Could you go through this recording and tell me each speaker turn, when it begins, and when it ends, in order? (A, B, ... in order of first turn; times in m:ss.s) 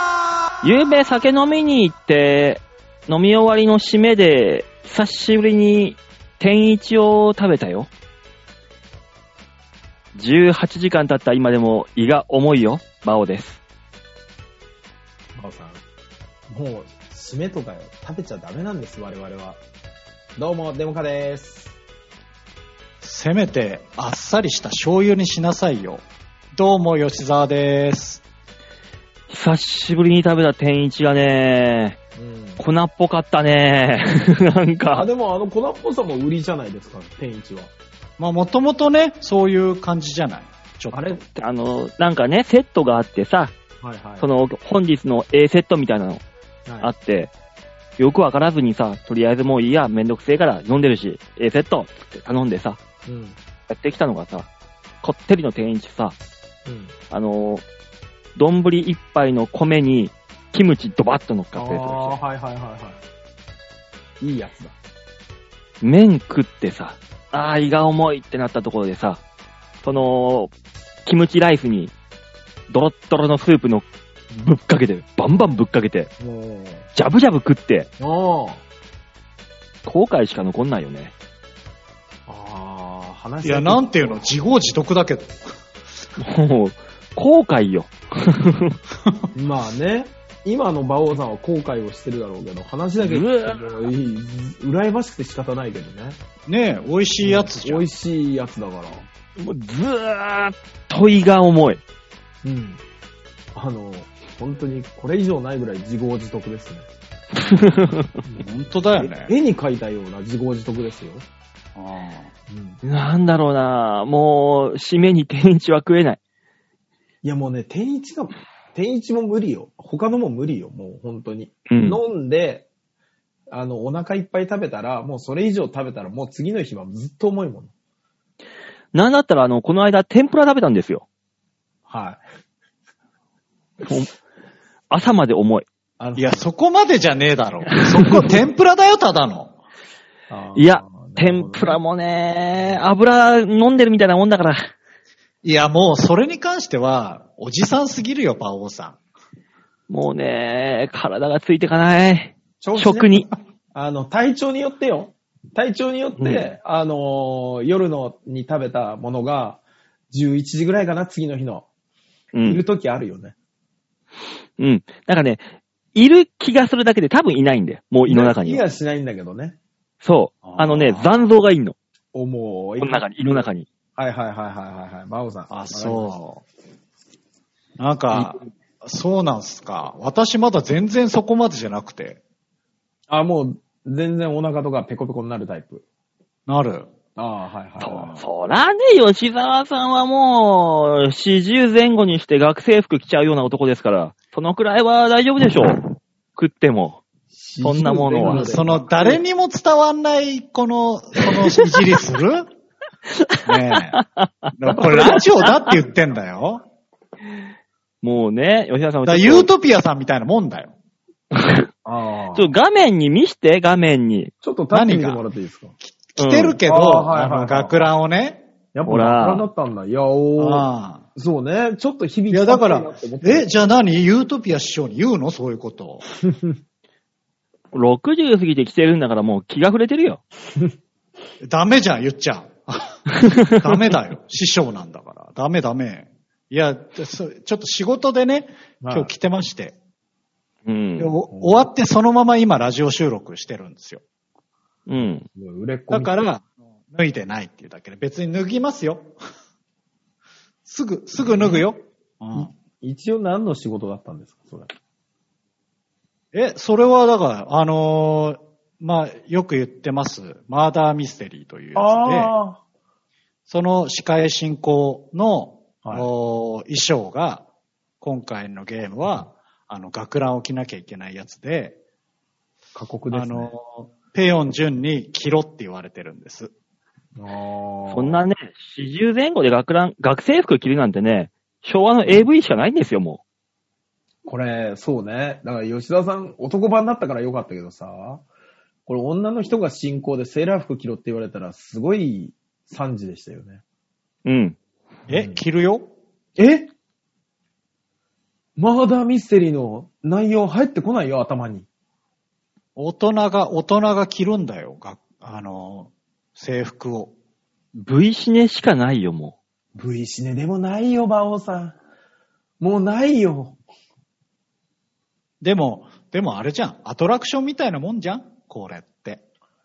0:00.6-0:07.9 A
0:10.2-0:13.6 A
0:15.4-0:15.8 B
0:16.5-0:19.6 B
0:20.4-0:21.7 B
0:23.0-0:28.2 C
0:29.3-0:32.0 A
0:32.2-0:32.6 B
0:32.6-0:35.1 A
0:34.9-0:37.7 B
0:38.2-0:41.2 C
0:40.9-0:41.2 B
0:41.2-0:43.6 A
0:43.8-0:44.3 B
0:44.2-0:46.2 A
0:46.7-0:46.9 B
0:46.8-0:47.3 A
0:48.0-0:52.8 A
0:53.1-0:53.4 B
0:53.7-0:54.5 A
0:55.0-0:56.2 A
0:56.7-0:56.9 B
0:57.1-0:57.6 A
0:58.4-1:02.2 A
1:01.6-1:03.0 B
1:04.2-1:04.8 B
1:05.8-1:09.2 A
1:09.8-1:10.5 A
1:11.1-1:11.9 A
1:12.7-1:16.1 A
1:16.2-1:16.9 B
1:17.0-1:17.9 A
1:18.0-1:18.6 B
1:19.8-1:21.1 A
1:22.3-1:24.3 B
1:23.4-1:25.4 C
1:26.2-1:28.8 A
1:29.4-1:36.2 B
1:33.0-1:33.6 A
1:36.5-1:37.9 C
1:37.2-1:39.1 B
1:39.4-1:41.8 A
1:42.4-1:42.8 B
1:43.5-1:46.9 B
1:47.4-1:48.2 A
1:48.2-1:51.2 B
1:48.4-1:49.3 C
1:51.8-1:52.3 C
1:52.5-1:52.8 B
1:52.8-1:56.2 A
1:57.2-2:02.7 B
2:01.7-2:02.0 A
2:03.5-2:07.7 B
2:08.9-2:11.0 A
2:11.9-2:12.2 B
2:13.8-2:14.1 A
2:14.9-2:15.7 A
2:16.0-2:16.5 B
2:16.2-2:19.6 C
2:17.8-2:18.2 A
2:20.3-2:21.8 B
2:20.6-2:24.7 A
2:25.4-2:29.0 C
2:29.9-2:33.3 A
2:32.6-2:41.7 B
2:36.2-2:36.5 A
2:42.3-2:42.6 A
2:42.5-2:43.4 B
2:44.6-2:48.6 A
2:48.0-2:49.6 B
2:50.0-2:51.8 A
2:50.4-2:51.2 C
2:52.1-2:53.4 B
2:52.8-2:53.7 A
2:54.0-2:56.1 B
2:55.5-2:56.4 C
2:57.8-3:02.2 C
2:58.1-2:58.4 B
3:03.1-3:05.8 B
3:06.5-3:06.9 C
3:07.2-3:08.1 B
3:07.8-3:15.8 A
3:07.9-3:08.2 C
3:16.4-3:17.0 A
3:17.3-3:19.2 B
3:17.6-3:18.5 A
3:18.3-3:22.5 C
3:23.1-3:25.8 A
3:23.4-3:24.0 C
3:24.6-3:26.6 C
3:28.0-3:29.5 A
3:29.0-3:30.7 C
3:31.3-3:31.7 A
3:31.8-3:32.6 B
3:32.4-3:34.3 A
3:34.4-3:35.8 B
3:34.7-3:35.2 C
3:35.8-3:38.4 C
3:36.2-3:36.6 A
3:36.6-3:37.9 B
3:38.7-3:43.6 B
3:38.9-3:39.5 A
3:40.4-3:41.0 C
3:42.3-3:46.1 C
3:46.2-3:46.6 B
3:47.7-3:50.2 A
3:51.4-3:59.8 C
3:53.2-3:53.7 A
3:58.8-3:59.1 B
4:00.7-4:01.2 A
4:01.0-4:04.0 C
4:01.3-4:01.6 B
4:04.9-4:05.3 A
4:05.3-4:06.2 B
4:05.9-4:09.1 C
4:10.7-4:12.5 C
4:11.2-4:11.7 B
4:12.4-4:14.7 B
4:16.3-4:22.3 C
4:21.8-4:22.6 B
4:23.5-4:27.4 C
4:25.8-4:26.1 B
4:28.0-4:31.8 C
4:32.8-4:33.5 B
4:33.1-4:36.5 C
4:37.2-4:38.2 B
4:37.9-4:43.2 A
4:44.2-4:48.2 B
4:48.9-4:53.6 B
4:54.2-4:54.6 A
4:55.1-4:55.4 B
4:55.1-4:55.9 C
4:56.4-4:56.7 B
4:58.6-5:01.7 B
5:02.8-5:07.1 C
5:07.8-5:09.4 A
5:09.8-5:11.8 B
5:12.6-5:13.6 B
5:15.4-5:19.2 C